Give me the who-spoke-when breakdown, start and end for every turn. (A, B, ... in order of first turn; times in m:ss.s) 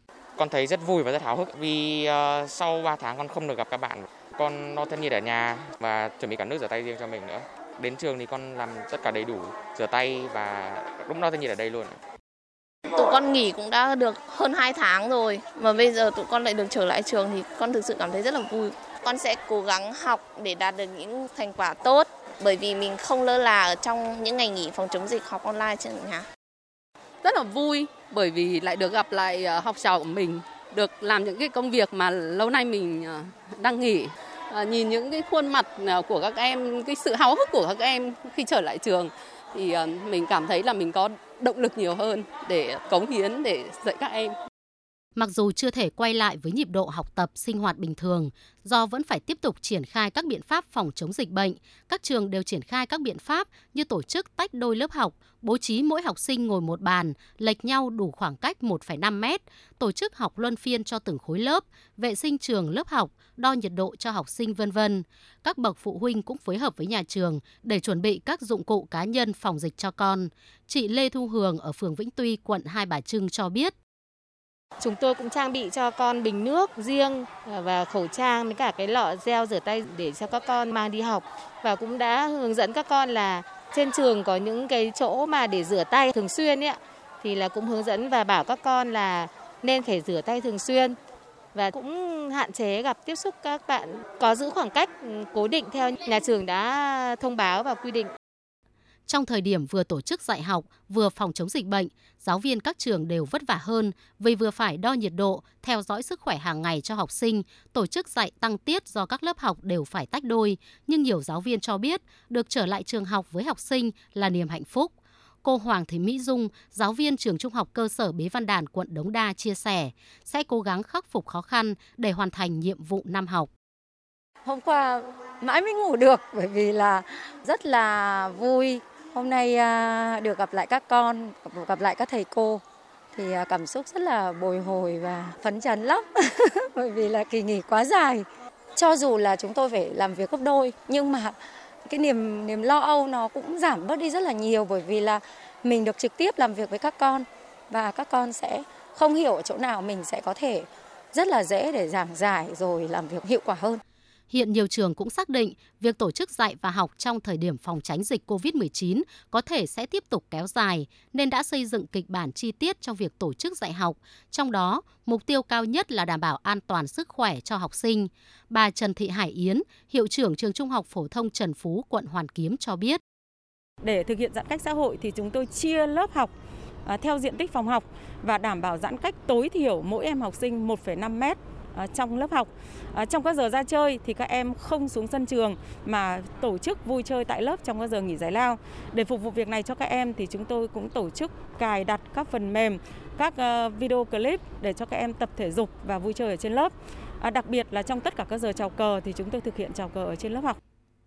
0:00.4-0:12.0 A
0:12.9-0:26.2 B
0:27.2-0:44.3 C
0:45.2-1:13.7 D
1:14.8-1:31.0 E
1:31.5-1:38.1 E
1:39.1-1:54.9 D
1:55.4-2:03.5 D
2:04.4-2:12.6 F
2:13.1-2:33.8 F
2:34.3-2:53.0 D
2:53.8-2:56.3 G
2:56.9-3:20.6 G